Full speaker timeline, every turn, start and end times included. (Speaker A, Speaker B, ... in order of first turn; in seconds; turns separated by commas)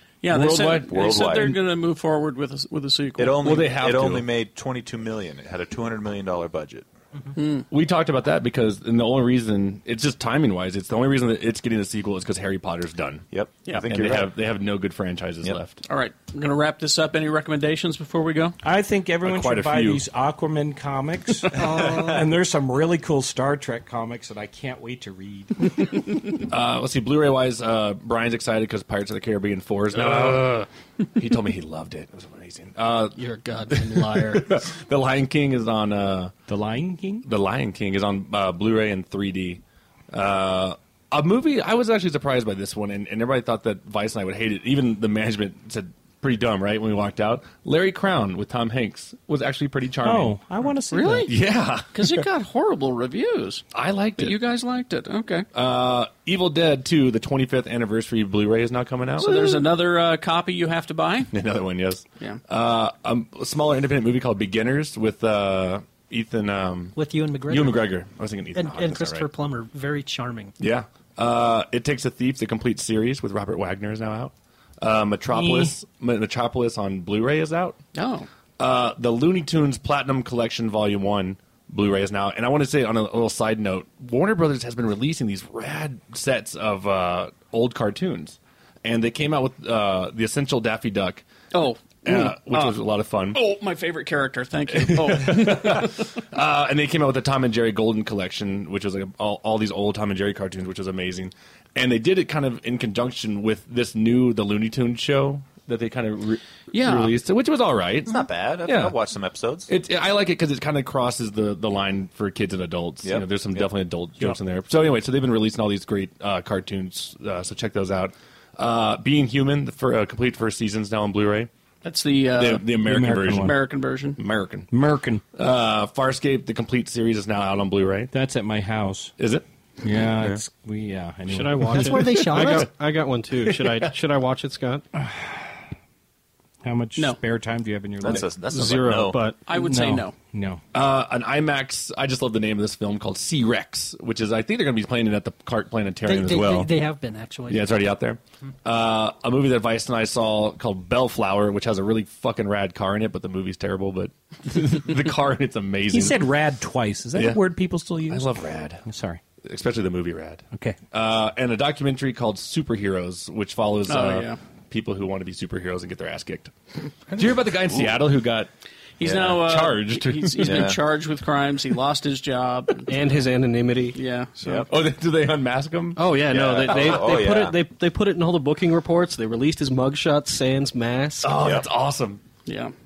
Speaker A: 0.2-3.4, Speaker B: 0.3-1.6, Speaker C: 0.8-1.6, Speaker C: 3.2-6.9, Speaker B: 3.4-4.3, Speaker A: 7.4-7.7, Speaker B: 7.7-15.8, Speaker C: 13.3-14.3, Speaker A: 15.9-18.6, Speaker D: 18.6-26.3, Speaker B: 19.2-20.0, Speaker C: 21.6-22.1, Speaker B: 26.5-36.3, Speaker E: 33.1-34.7, Speaker D: 36.5-37.3, Speaker B: 37.2-50.4, Speaker D: 50.0-51.3, Speaker A: 50.9-51.3, Speaker B: 51.2-52.2, Speaker A: 51.9-55.5, Speaker B: 53.7-54.4, Speaker B: 55.5-59.6, Speaker A: 59.2-61.3, Speaker B: 61.3-67.0, Speaker F: 67.0-67.9, Speaker B: 67.5-69.3, Speaker F: 68.5-70.5, Speaker B: 70.6-77.8, Speaker D: 75.3-75.7, Speaker A: 78.0-78.3, Speaker B: 78.6-91.2, Speaker A: 91.5-92.8, Speaker B: 92.0-93.4, Speaker A: 93.3-96.1, Speaker B: 94.7-109.0, Speaker A: 106.7-107.2, Speaker C: 108.1-109.7, Speaker B: 109.7-121.5, Speaker C: 113.0-114.4, Speaker A: 121.8-122.8, Speaker B: 122.3-123.6, Speaker D: 122.8-123.6, Speaker A: 123.3-124.2, Speaker B: 124.2-124.7, Speaker D: 124.7-125.2, Speaker B: 125.4-128.1, Speaker D: 128.1-129.2, Speaker B: 129.2-129.4, Speaker D: 129.8-132.0, Speaker B: 130.2-130.4, Speaker E: 131.3-134.8, Speaker F: 131.8-132.7, Speaker B: 131.9-132.7, Speaker B: 133.4-134.0, Speaker D: 135.0-135.6, Speaker D: 136.6-138.3, Speaker C: 138.0-139.2, Speaker E: 138.1-139.4, Speaker A: 139.5-140.2, Speaker D: 139.5-140.6, Speaker B: 140.7-146.7, Speaker F: 146.1-147.8, Speaker B: 147.5-156.3, Speaker D: 155.9-159.2, Speaker B: 157.1-157.4, Speaker B: 158.1-158.8, Speaker B: 159.4-166.5, Speaker D: 160.5-160.8, Speaker A: 163.9-164.4, Speaker B: 167.1-168.5, Speaker C: 167.7-168.0, Speaker A: 169.0-173.2, Speaker C: 169.0-169.4, Speaker B: 169.2-170.7, Speaker C: 170.4-170.8, Speaker E: 172.9-174.0, Speaker A: 173.9-174.7, Speaker C: 174.4-174.7, Speaker B: 174.7-177.2, Speaker E: 175.9-181.6, Speaker C: 176.3-177.6, Speaker B: 181.2-182.2, Speaker C: 181.4-181.7, Speaker A: 182.5-182.7